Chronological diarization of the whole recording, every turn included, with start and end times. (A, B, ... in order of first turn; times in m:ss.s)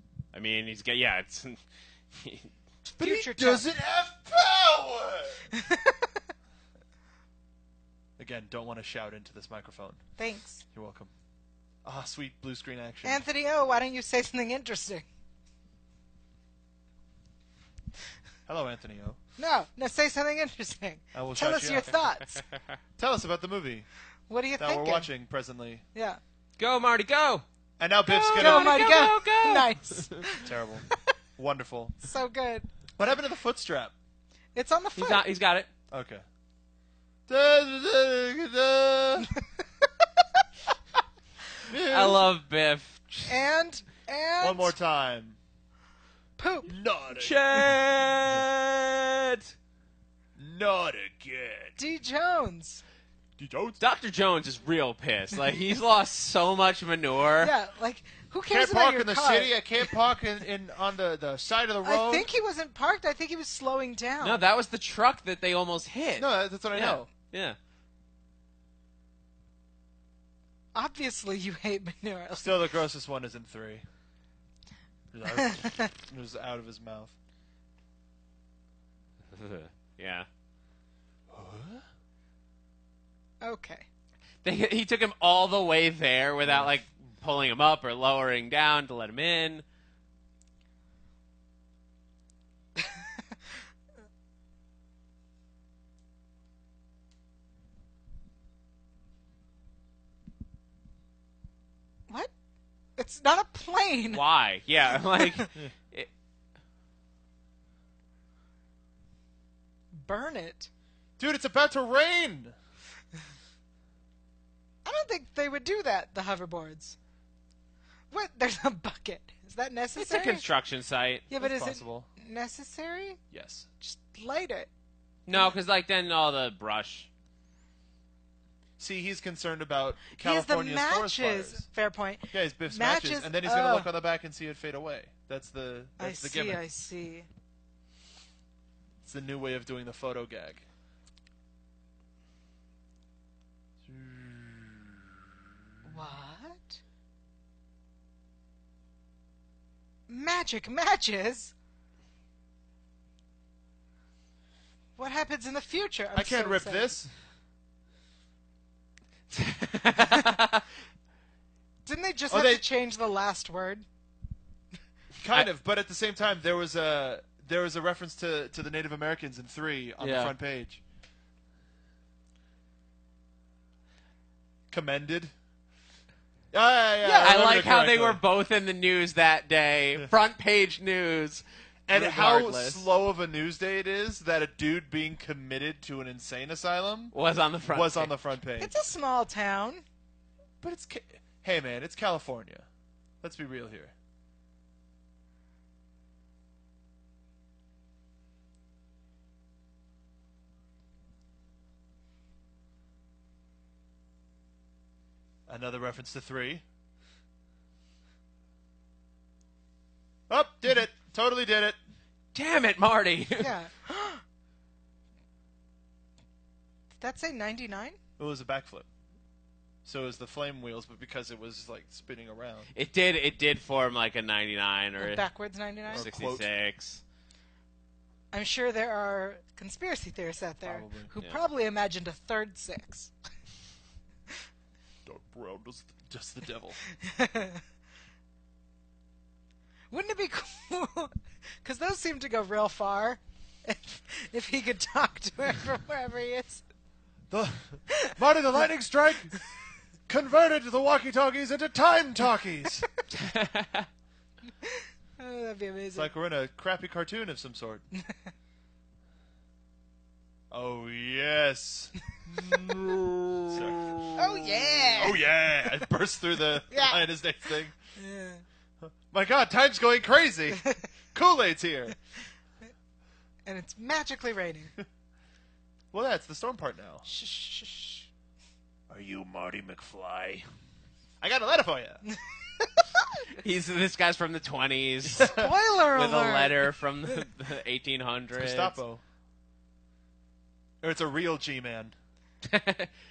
0:00.3-0:01.6 A
0:02.1-0:02.5 A
0:03.0-0:03.6 B
0:03.0-0:05.5 C
0:05.5-0:06.2 B
0:08.2-0:10.0 C
0:10.2-0:10.6 B
0:10.7-0:11.1 C
0:11.8-0:13.2 C
0:13.0-0:15.0 B
0:18.5-0:19.2 C
0:19.4-0:22.4 B
0:21.1-0:21.9 C
0:23.0-0:23.9 C
0:24.3-0:25.1 B
0:24.6-0:25.8 C
0:25.9-0:26.2 B
0:26.6-0:27.4 A
0:27.8-0:29.0 C
0:28.1-0:30.5 B
0:28.1-0:30.2 A
0:30.4-0:30.8 C
0:31.4-0:32.0 C
0:32.0-0:32.7 B
0:33.0-0:33.9 C
0:34.5-0:35.2 B
0:35.0-0:35.7 A
0:35.9-0:36.2 C
0:37.3-0:39.3 C
0:41.7-0:42.2 C
0:41.9-0:43.3 A
0:43.3-0:44.7 B
0:44.4-0:45.4 C
0:46.4-0:46.7 B
0:46.7-0:48.4 C
0:47.1-0:49.5 A
0:50.4-0:51.8 C
0:51.8-0:52.8 B
0:53.4-0:53.8 C
0:53.8-0:57.5 A
0:57.4-0:59.6 B
0:58.5-1:02.3 C
1:01.8-1:04.4 B
1:04.2-1:07.6 A
1:06.2-1:07.1 C
1:10.7-1:12.7 B
1:12.4-1:13.8 C
1:15.1-1:17.1 C
1:15.4-1:15.8 B
1:19.3-1:20.3 A
1:21.3-1:21.8 C
1:23.4-1:23.8 B
1:24.4-1:29.6 A
1:26.4-1:26.7 C
1:32.8-1:33.2 B
1:43.0-1:44.2 B
1:44.1-1:46.1 A
1:45.2-1:45.5 B
1:49.9-1:50.7 B
1:51.2-1:52.5 C
1:54.8-1:57.0 B
1:58.1-2:00.4 B
2:00.0-2:01.2 A
2:01.3-2:03.2 B
2:01.4-2:02.1 C
2:03.3-2:03.6 C
2:03.8-2:04.7 B
2:05.3-2:07.1 A
2:08.8-2:11.6 C
2:10.2-2:13.9 B
2:12.3-2:16.6 C
2:16.0-2:17.3 B
2:19.0-2:20.6 C
2:23.8-2:25.2 C
2:25.8-2:26.8 B
2:30.1-2:31.5 B
2:35.0-2:36.9 B
2:36.1-2:37.1 C
2:39.3-2:40.6 A
2:41.8-2:43.8 B
2:42.3-2:42.6 C
2:45.2-2:50.8 C
2:50.0-2:50.3 A
2:54.7-2:55.3 C
2:56.5-2:58.2 C
2:57.0-3:02.9 A
3:01.9-3:07.1 C
3:07.1-3:08.1 A
3:07.7-3:08.7 C
3:08.6-3:09.8 B
3:10.6-3:12.6 C
3:13.2-3:13.9 C
3:25.5-3:26.6 C
3:30.3-3:31.8 C
3:32.3-3:33.5 A
3:33.4-3:34.2 B
3:37.0-3:38.0 B
3:38.2-3:38.9 C
3:39.8-3:42.7 C
3:42.7-3:45.2 A
3:45.0-3:46.0 B
3:45.9-3:47.0 A
3:45.9-3:46.5 C
3:48.3-3:53.1 B
3:50.6-3:51.1 C
3:55.0-3:56.8 C
3:56.9-3:57.6 B
3:59.9-4:06.6 B
4:07.3-4:09.4 C
4:10.1-4:12.9 C
4:13.1-4:13.9 A
4:14.6-4:16.1 B
4:15.9-4:17.8 C
4:17.9-4:18.3 B
4:20.5-4:24.1 C
4:24.2-4:25.3 B
4:24.9-4:27.8 C
4:26.7-4:27.0 B
4:28.0-4:28.4 B
4:28.8-4:30.6 C
4:30.5-4:30.8 B
4:31.1-4:31.9 C
4:33.4-4:34.7 B
4:35.9-4:37.0 C
4:37.0-4:38.1 B
4:38.9-4:40.5 C
4:41.2-4:42.0 C
4:42.6-4:42.8 B
4:43.4-4:45.4 A
4:45.2-4:45.5 C
4:45.3-4:46.7 B
4:45.9-4:48.8 A
4:48.3-4:49.0 C
4:50.8-4:51.9 C
4:52.4-4:52.9 A